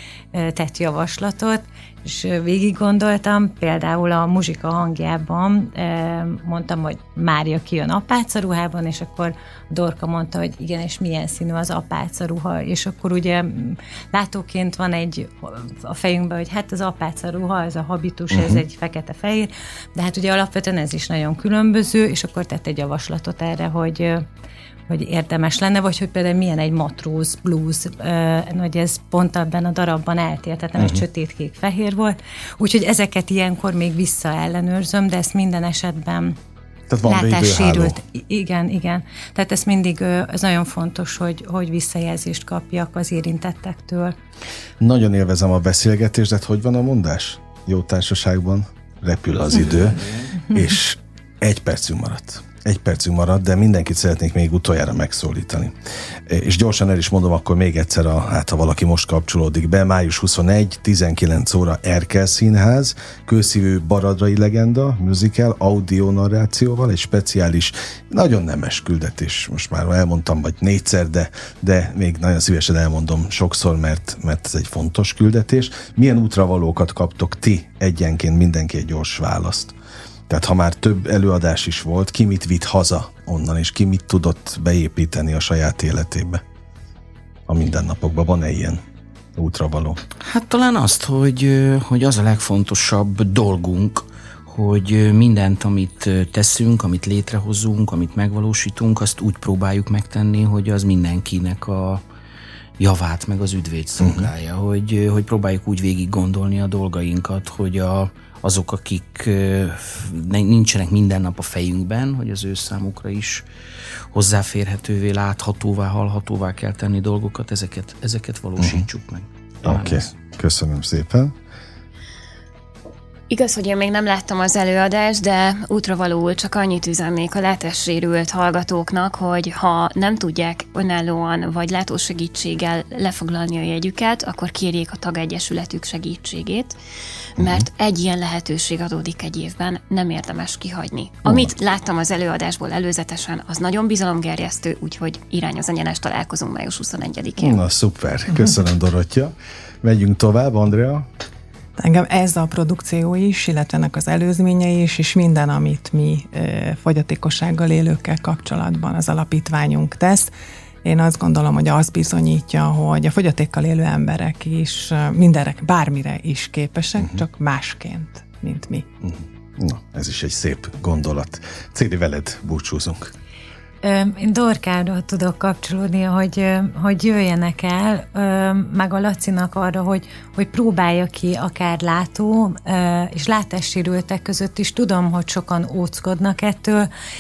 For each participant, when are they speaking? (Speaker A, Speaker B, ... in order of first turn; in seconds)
Speaker A: 0.3-24.3, 24.9-36.4, 37.0-44.1, 173.8-186.9
Speaker B: 18.3-18.6, 30.8-31.0, 36.9-38.0, 44.8-55.8, 56.3-79.7, 80.3-86.4, 87.5-88.8, 89.4-90.0, 104.0-104.3, 118.6-118.8, 119.6-121.3, 137.4-137.7, 141.2-141.5, 147.4-151.1, 169.0-173.1
Speaker C: 90.2-102.0, 102.8-113.5, 114.1-120.0
Speaker D: 123.3-136.8, 137.4-147.6
Speaker E: 151.8-160.3, 160.8-168.9